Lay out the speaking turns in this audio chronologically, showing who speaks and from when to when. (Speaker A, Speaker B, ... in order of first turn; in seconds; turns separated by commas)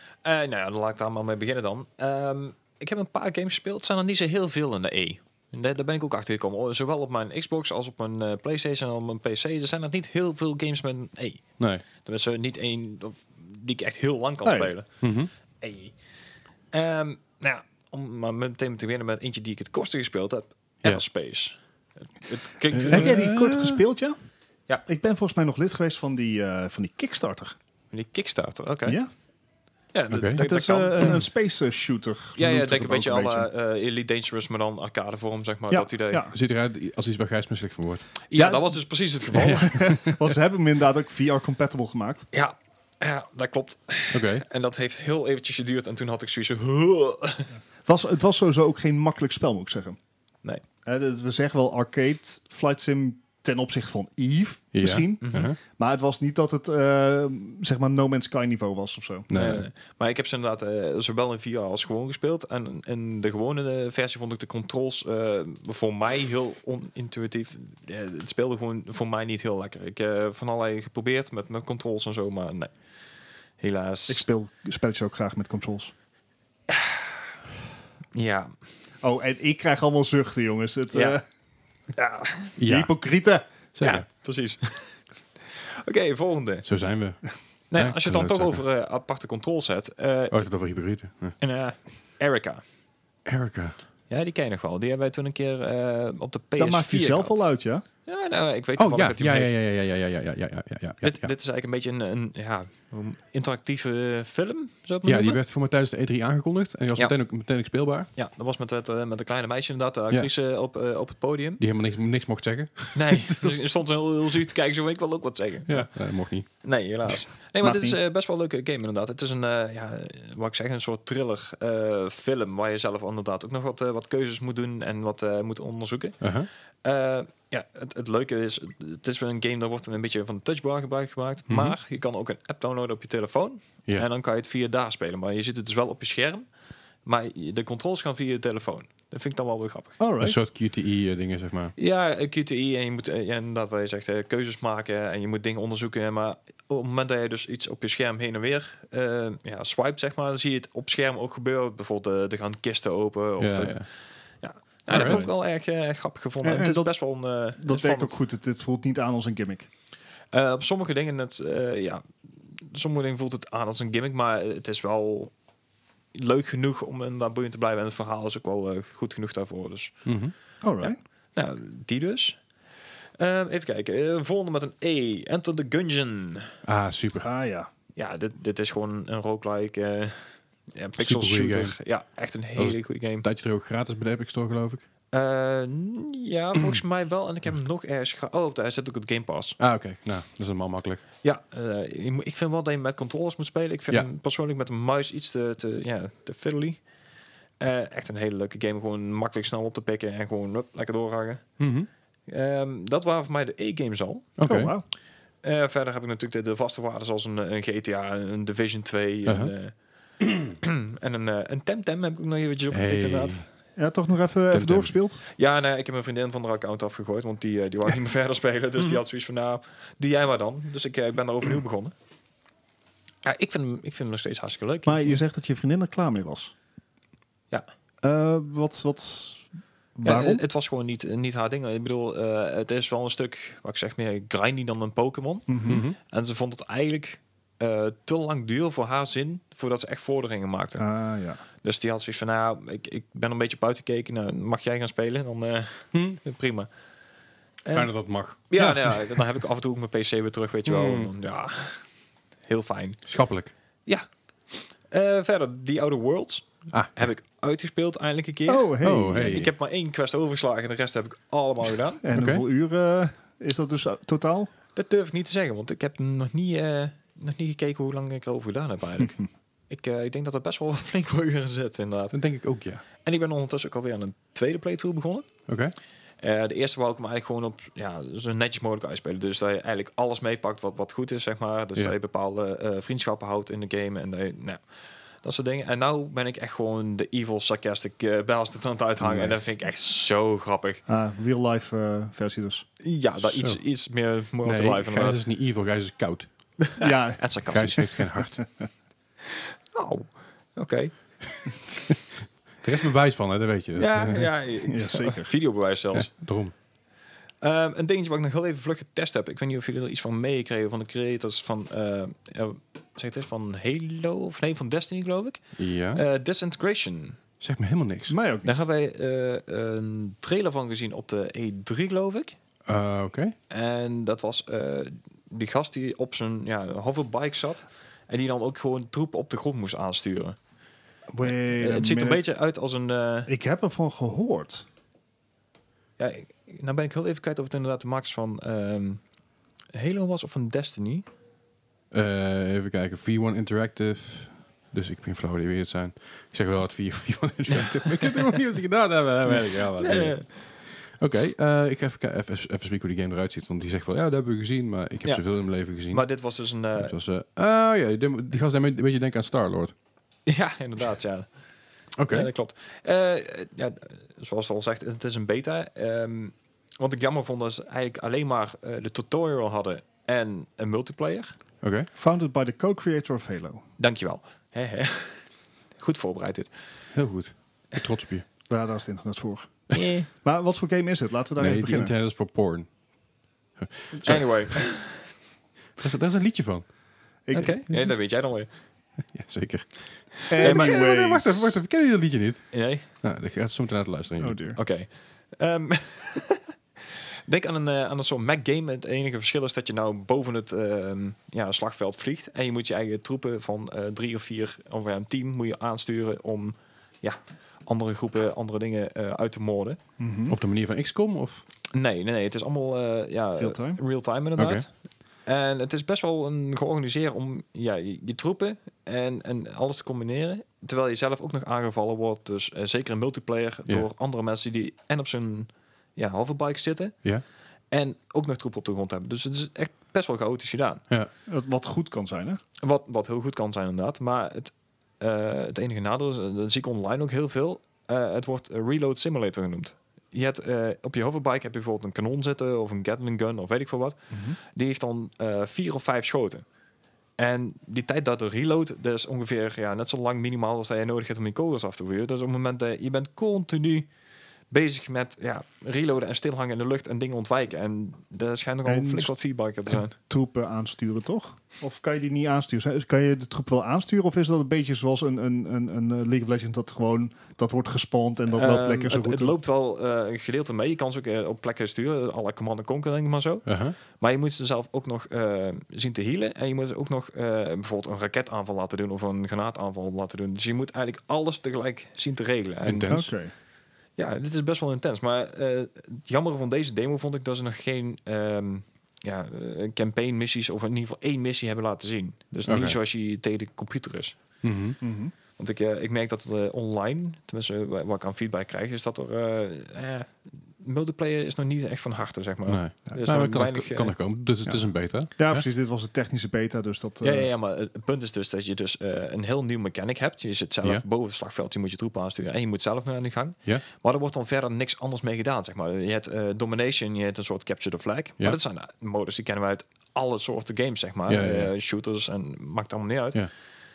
Speaker A: 0.2-15.0, Speaker B: 11.6-11.8, Speaker C: 14.4-14.7, Speaker B: 15.0-15.3, Speaker A: 15.6-15.9, Speaker A: 16.7-23.2, Speaker B: 22.7-23.8, Speaker C: 22.9-24.2, Speaker C: 24.9-27.6, Speaker A: 27.9-29.0, Speaker A: 29.9-31.2, Speaker B: 30.1-30.4, Speaker C: 30.4-33.5, Speaker A: 32.4-36.3, Speaker C: 35.7-36.3, Speaker B: 36.3-38.1, Speaker A: 38.3-39.9, Speaker C: 38.3-38.7, Speaker B: 39.4-40.1, Speaker C: 39.5-42.3, Speaker A: 42.3-47.5, Speaker B: 44.1-44.4, Speaker C: 47.9-50.0, Speaker C: 50.9-59.3, Speaker B: 54.7-55.6, Speaker A: 55.2-55.5, Speaker B: 59.3-59.7, Speaker A: 59.3-72.7, Speaker A: 73.6-74.2, Speaker C: 74.1-75.9, Speaker A: 76.7-77.1, Speaker A: 78.1-78.5, Speaker C: 79.0-81.2, Speaker A: 80.9-81.2, Speaker A: 82.0-82.6, Speaker B: 82.6-82.9, Speaker C: 82.7-83.4, Speaker B: 83.8-84.0, Speaker A: 83.8-86.7, Speaker B: 86.7-88.6, Speaker A: 87.7-90.4, Speaker B: 90.3-91.4, Speaker A: 91.4-92.6, Speaker B: 93.3-93.8, Speaker A: 94.1-97.4, Speaker C: 96.6-97.8, Speaker A: 98.1-99.5, Speaker B: 98.8-101.3, Speaker A: 101.0-105.4, Speaker B: 105.0-108.1, Speaker A: 108.2-111.6, Speaker B: 111.6-113.5, Speaker A: 113.0-136.5, Speaker B: 115.7-116.5, Speaker C: 117.6-118.0, Speaker B: 126.2-126.5, Speaker B: 131.5-131.8, Speaker A: 137.0-140.0, Speaker C: 140.0-140.4, Speaker B: 140.2-141.8, Speaker A: 141.8-158.2, Speaker B: 153.4-153.9, Speaker B: 154.9-155.2, Speaker C: 154.9-155.3, Speaker C: 156.4-156.9, Speaker C: 157.6-159.7, Speaker A: 160.3-165.3, Speaker A: 166.1-170.0, Speaker B: 170.1-170.3, Speaker C: 170.6-171.0, Speaker A: 170.8-172.4, Speaker A: 173.2-176.6, Speaker B: 176.6-177.3, Speaker C: 177.2-177.7, Speaker A: 178.0-183.2, Speaker B: 181.0-181.8, Speaker B: 182.6-184.8, Speaker A: 185.1-189.6, Speaker B: 189.6-191.0, Speaker A: 191.2-196.8, Speaker A: 197.6-201.6, Speaker B: 201.6-201.9, Speaker A: 202.3-204.3, Speaker B: 204.4-204.7, Speaker C: 204.4-204.8, Speaker A: 205.4-213.4, Speaker B: 209.3-209.5, Speaker B: 212.7-213.5, Speaker C: 213.8-215.2, Speaker B: 214.5-214.9, Speaker A: 215.4-221.9, Speaker A: 223.2-225.2, Speaker C: 224.8-226.5, Speaker C: 228.0-229.4, Speaker C: 230.0-230.4, Speaker A: 230.0-240.9, Speaker C: 235.5-235.8, Speaker B: 235.7-236.0, Speaker C: 240.8-241.4, Speaker A: 241.6-246.7, Speaker B: 245.9-246.2, Speaker A: 247.7-251.9, Speaker B: 247.7-249.0, Speaker B: 250.7-251.1, Speaker A: 252.5-253.1, Speaker B: 253.1-253.5, Speaker A: 254.9-262.0, Speaker B: 256.7-257.1, Speaker C: 258.5-259.3, Speaker B: 258.8-259.5, Speaker C: 262.0-264.5, Speaker B: 262.1-262.4, Speaker A: 264.8-272.2, Speaker B: 272.1-272.8, Speaker A: 273.0-275.3, Speaker B: 275.5-275.7, Speaker A: 276.2-284.7, Speaker A: 285.2-290.8, Speaker B: 289.1-289.4, Speaker C: 290.9-292.7, Speaker A: 292.8-295.2, Speaker B: 293.2-293.6, Speaker B: 294.4-296.3, Speaker A: 296.6-298.0, Speaker C: 296.8-297.2, Speaker B: 297.5-298.4, Speaker A: 299.3-301.0, Speaker B: 302.6-304.3, Speaker A: 303.8-306.1, Speaker C: 304.6-305.3, Speaker B: 305.9-306.5, Speaker A: 307.4-317.2, Speaker B: 315.6-316.0, Speaker B: 317.4-318.2, Speaker C: 318.1-318.6, Speaker A: 318.4-322.4, Speaker B: 322.7-323.4, Speaker A: 323.5-330.4, Speaker C: 331.1-332.2, Speaker A: 331.3-333.3, Speaker C: 333.3-334.6, Speaker A: 336.0-339.0, Speaker A: 339.7-341.1, Speaker B: 341.9-356.0, Speaker A: 347.6-348.2, Speaker A: 349.3-350.3, Speaker A: 355.8-356.9, Speaker B: 356.8-359.7, Speaker A: 360.3-361.3, Speaker B: 362.0-362.3, Speaker A: 362.1-371.4, Speaker B: 371.6-371.9, Speaker C: 371.9-373.6, Speaker A: 373.8-375.2, Speaker A: 375.8-376.5, Speaker B: 376.9-378.2, Speaker C: 378.5-379.6, Speaker A: 379.7-380.1, Speaker C: 380.1-381.9, Speaker B: 381.4-382.7, Speaker B: 383.6-384.3, Speaker A: 384.1-385.1, Speaker B: 385.8-386.7, Speaker C: 387.3-387.6, Speaker A: 387.3-388.5, Speaker B: 389.1-394.4, Speaker C: 390.3-391.6, Speaker A: 390.4-390.9, Speaker A: 392.5-392.9, Speaker C: 394.2-394.6, Speaker A: 394.6-409.8, Speaker C: 410.0-410.4, Speaker B: 410.3-411.4, Speaker A: 411.7-414.7, Speaker C: 413.4-413.8, Speaker B: 414.4-414.7, Speaker A: 415.3-427.0, Speaker A: 427.7-430.8, Speaker C: 431.3-432.4, Speaker A: 432.6-444.0, Speaker C: 444.1-444.4, Speaker A: 444.5-446.4, Speaker A: 447.2-453.9, Speaker A: 454.5-459.9, Speaker C: 458.6-459.1, Speaker C: 460.0-469.4, Speaker A: 468.3-483.1, Speaker B: 473.5-473.8, Speaker B: 482.6-483.1, Speaker C: 482.9-483.3, Speaker A: 484.0-494.2, Speaker B: 492.5-492.8, Speaker B: 494.4-494.8, Speaker C: 494.8-495.1, Speaker A: 495.4-503.9, Speaker B: 502.5-505.4, Speaker C: 505.2-507.3, Speaker A: 507.0-523.2, Speaker B: 521.1-521.5